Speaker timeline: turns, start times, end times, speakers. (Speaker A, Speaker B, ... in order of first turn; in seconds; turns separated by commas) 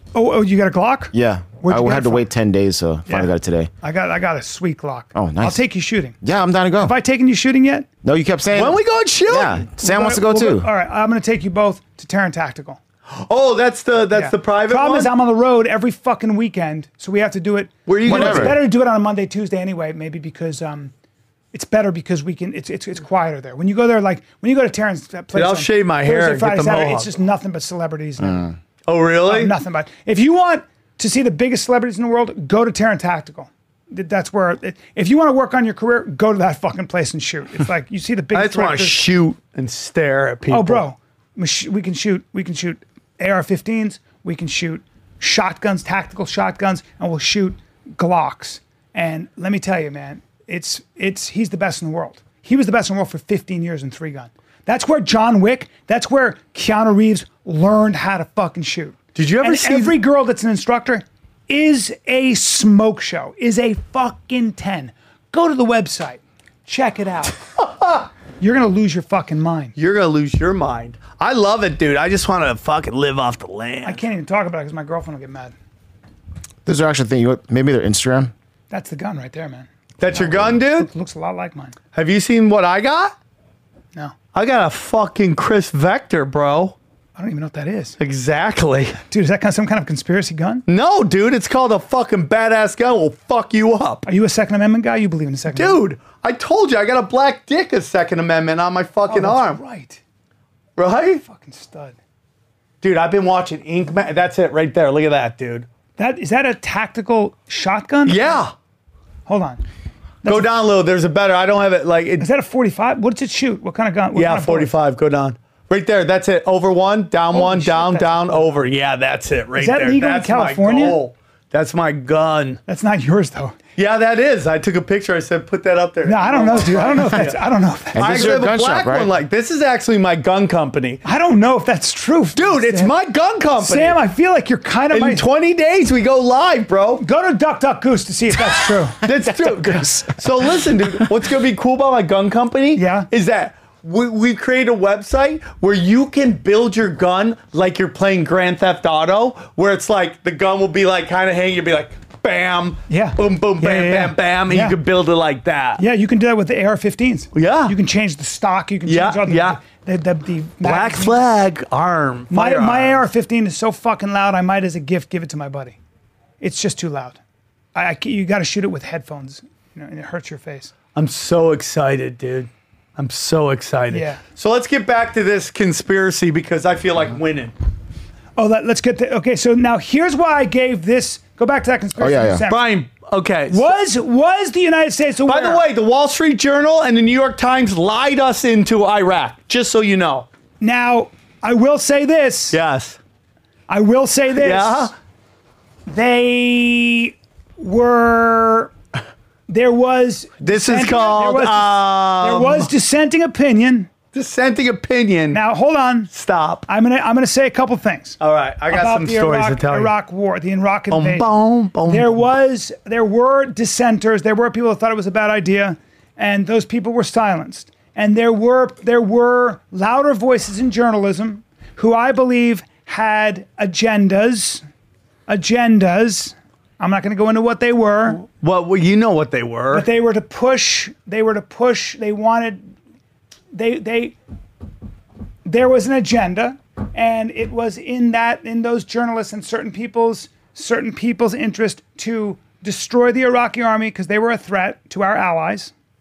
Speaker A: 0.1-2.2, Speaker B: 1.1-3.7, Speaker A: 3.8-6.2, Speaker B: 5.1-5.6, Speaker B: 6.2-6.9, Speaker A: 6.8-7.9, Speaker B: 8.0-8.8, Speaker C: 8.5-9.7, Speaker B: 9.3-10.7, Speaker A: 9.8-12.8, Speaker C: 13.1-15.1, Speaker A: 14.1-20.9, Speaker C: 17.9-18.6, Speaker B: 18.1-18.6, Speaker A: 21.5-28.5, Speaker C: 25.3-27.1, Speaker C: 28.9-29.5, Speaker A: 29.2-39.0, Speaker C: 38.3-40.8, Speaker A: 40.5-67.4, Speaker C: 59.1-60.0, Speaker C: 67.6-68.1, Speaker A: 68.4-69.7, Speaker C: 69.8-74.0, Speaker A: 73.8-75.5, Speaker B: 76.6-78.3, Speaker A: 78.7-81.8, Speaker C: 80.0-80.9, Speaker C: 81.9-83.1, Speaker C: 84.3-86.8, Speaker A: 87.2-88.0, Speaker C: 88.0-89.0, Speaker A: 89.1-90.6, Speaker C: 90.7-94.0, Speaker A: 94.0-95.8, Speaker C: 95.5-99.6, Speaker A: 99.1-100.0, Speaker C: 100.8-101.2, Speaker A: 101.2-102.0, Speaker C: 102.8-105.7, Speaker A: 106.0-108.4, Speaker C: 108.0-108.5, Speaker A: 109.3-109.6, Speaker C: 110.2-112.2, Speaker A: 112.2-114.7, Speaker C: 114.1-122.6, Speaker A: 117.3-118.6, Speaker A: 119.6-121.0, Speaker A: 122.7-123.5, Speaker C: 123.8-127.4, Speaker A: 126.0-128.4, Speaker B: 127.9-129.1, Speaker C: 128.0-131.0, Speaker A: 131.0-132.9, Speaker C: 132.3-134.0, Speaker A: 133.6-135.2, Speaker C: 134.9-137.0, Speaker A: 137.0-140.0, Speaker C: 139.0-155.8, Speaker A: 142.7-143.1, Speaker A: 152.9-154.8, Speaker A: 155.8-161.2, Speaker C: 157.3-157.7, Speaker C: 158.8-159.6, Speaker C: 160.6-163.0, Speaker A: 162.3-165.8, Speaker A: 166.4-167.2, Speaker A: 167.7-170.7, Speaker C: 170.9-177.5, Speaker A: 173.9-174.2, Speaker A: 178.4-182.7, Speaker B: 182.0-182.4, Speaker C: 182.5-183.7, Speaker A: 183.5-185.6, Speaker C: 185.2-190.3, Speaker A: 190.6-192.6, Speaker C: 192.5-193.0, Speaker A: 193.7-194.9, Speaker C: 194.4-194.9, Speaker A: 195.9-198.7, Speaker A: 199.5-203.9, Speaker C: 200.4-202.7, Speaker C: 204.1-205.4, Speaker A: 205.3-206.1, Speaker C: 206.1-206.7, Speaker A: 206.7-208.2, Speaker C: 208.2-209.9, Speaker A: 208.7-211.3, Speaker C: 210.9-212.2, Speaker A: 211.8-224.6, Speaker A: 225.3-228.2, Speaker C: 228.2-229.9, Speaker A: 229.7-232.7, Speaker A: 233.5-234.2, Speaker A: 235.4-245.7